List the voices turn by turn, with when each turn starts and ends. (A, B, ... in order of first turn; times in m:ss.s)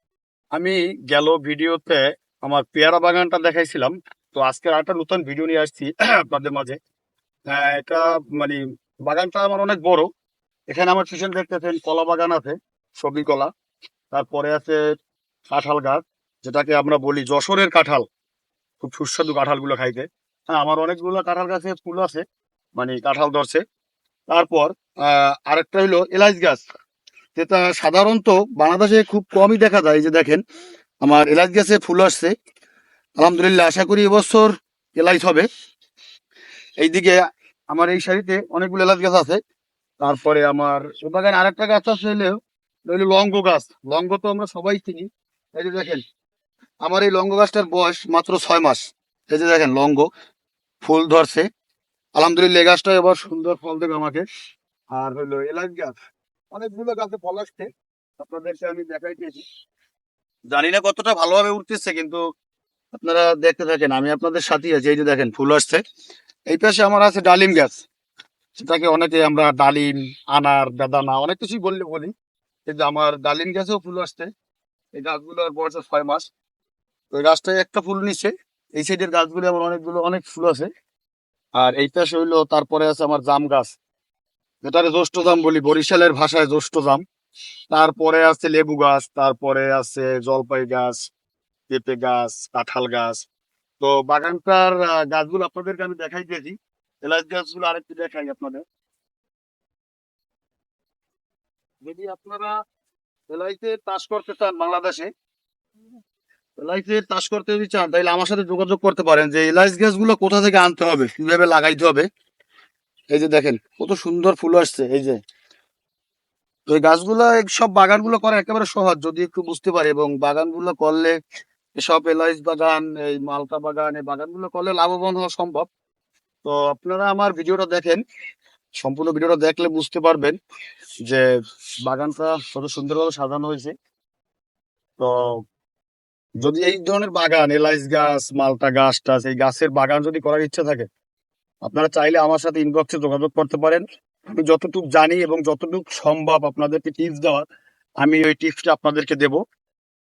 0:00.5-0:06.8 A
0:07.5-0:10.1 A
0:10.7-0:13.5 A
0:14.1-0:14.8 A
0:15.5-0:18.0 A
0:18.8-0:22.2 A
0:22.8-0:23.6 A
0:24.3-0:26.6 A
0:27.4-0:30.4 A
0:31.0-0:32.3 A
0:33.2-0:35.4 A
0:36.8-0:37.2 A
0:37.7-0:39.4 A
0:40.0-0:46.0 A
0:46.8-0:50.1 A
0:50.8-0:51.4 A
0:52.2-0:54.2 A
0:54.9-0:55.9 A
0:56.5-0:59.4 A
1:00.5-1:02.2 A
1:02.9-1:05.8 A
1:06.5-1:07.8 A
1:08.5-1:12.1 A
1:12.7-1:14.3 A
1:14.9-1:16.3 A
1:17.1-1:20.7 A
1:21.6-1:23.8 A
1:24.6-1:27.0 A
1:27.7-1:31.0 A
1:31.7-1:33.2 A
1:33.8-1:38.6 A
1:41.8-1:42.5 A
1:43.3-1:45.1 A
1:46.6-1:52.0 A
1:53.1-1:55.2 A
1:56.7-2:01.1 A
2:01.8-2:05.7 A
2:06.4-2:08.0 A
2:08.8-2:10.4 A
2:11.8-2:13.7 A
2:15.0-2:15.4 A
2:16.4-2:20.9 A
2:21.6-2:27.5 A
2:28.0-2:29.4 A